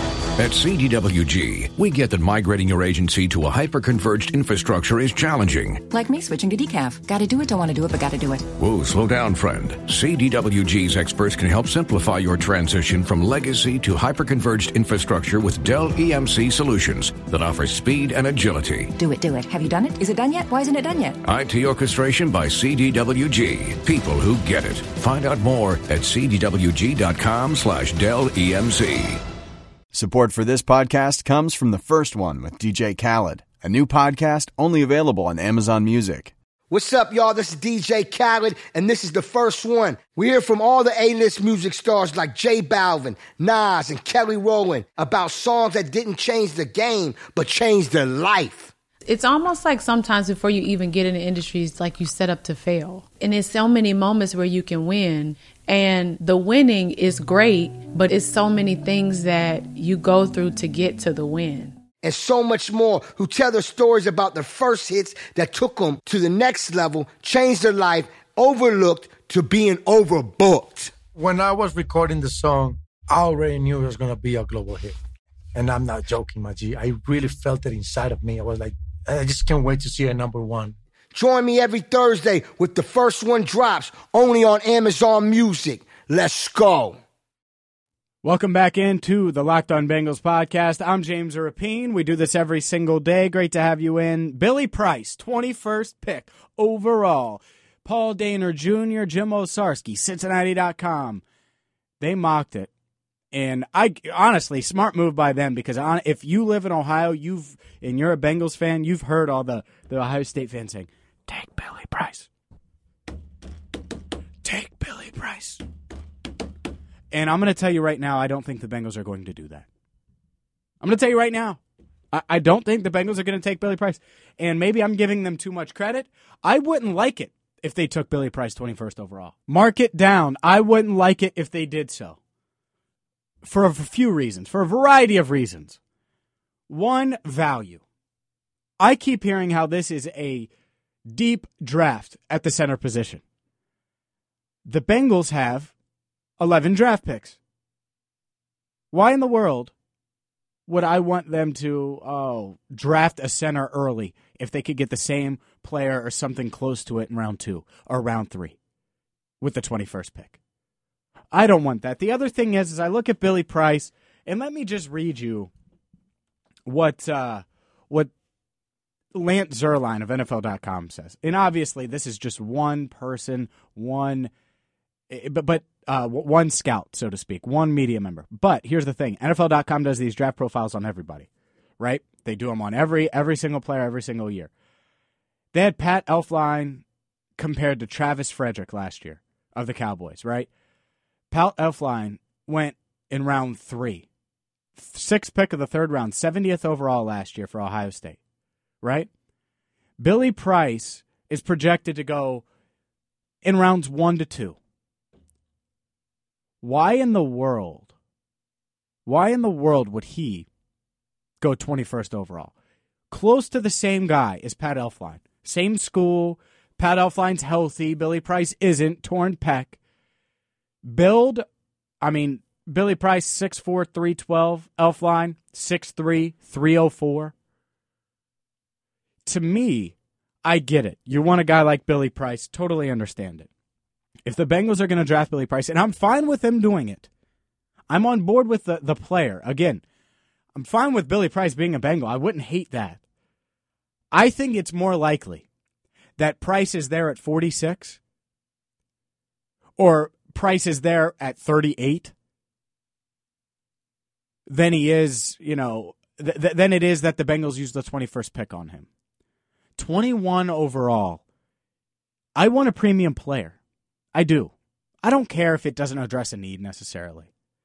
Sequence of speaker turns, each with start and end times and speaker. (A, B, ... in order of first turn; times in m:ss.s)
0:00.4-0:05.8 A
0:05.9-0:08.5 B
0:08.6-0:18.9 A
0:19.0-0:21.2 B
0:21.2-0:29.2 A
0:29.9-0:36.3 C
0:36.7-0:48.7 D
0:49.1-1:01.8 E
1:02.0-1:10.9 D
1:11.1-1:15.0 F
1:15.6-1:20.8 F
1:21.1-1:27.0 D
1:28.2-1:41.2 G
1:42.0-1:42.7 G
1:43.3-1:52.3 G
1:54.4-1:55.6 G
1:57.1-1:59.7 G
2:00.8-2:01.6 G
2:02.1-2:12.2 G
2:13.4-2:15.8 G
2:16.7-2:17.8 G
2:18.8-2:20.5 G
2:21.1-2:23.2 G
2:24.7-2:25.7 G
2:26.4-2:27.4 G
2:28.9-2:29.7 G
2:30.7-2:38.6 G
2:39.4-2:40.4 G
2:41.3-2:45.5 G
2:46.7-2:48.1 G
2:49.1-2:54.3 G
2:55.1-3:01.3 G
3:01.8-3:04.5 G
3:05.5-3:06.8 G
3:07.4-3:10.5 G
3:11.3-3:14.1 G
3:14.8-3:18.2 G
3:18.8-3:19.1 G
3:20.0-3:22.4 G
3:23.4-3:24.6 G
3:26.6-3:27.9 G
3:29.1-3:30.5 G
3:31.4-3:32.5 G
3:33.1-3:39.8 G
3:40.8-3:41.4 G
3:42.0-3:47.3 G
3:49.3-3:53.5 G
3:54.3-3:57.1 G
3:57.9-3:59.8 G
4:00.6-4:03.0 G
4:04.1-4:05.4 G
4:06.2-4:08.0 G
4:09.8-4:12.1 G
4:14.5-4:18.9 G
4:19.8-4:21.2 G
4:22.4-4:23.6 G
4:24.2-4:24.5 G
4:25.0-4:27.3 G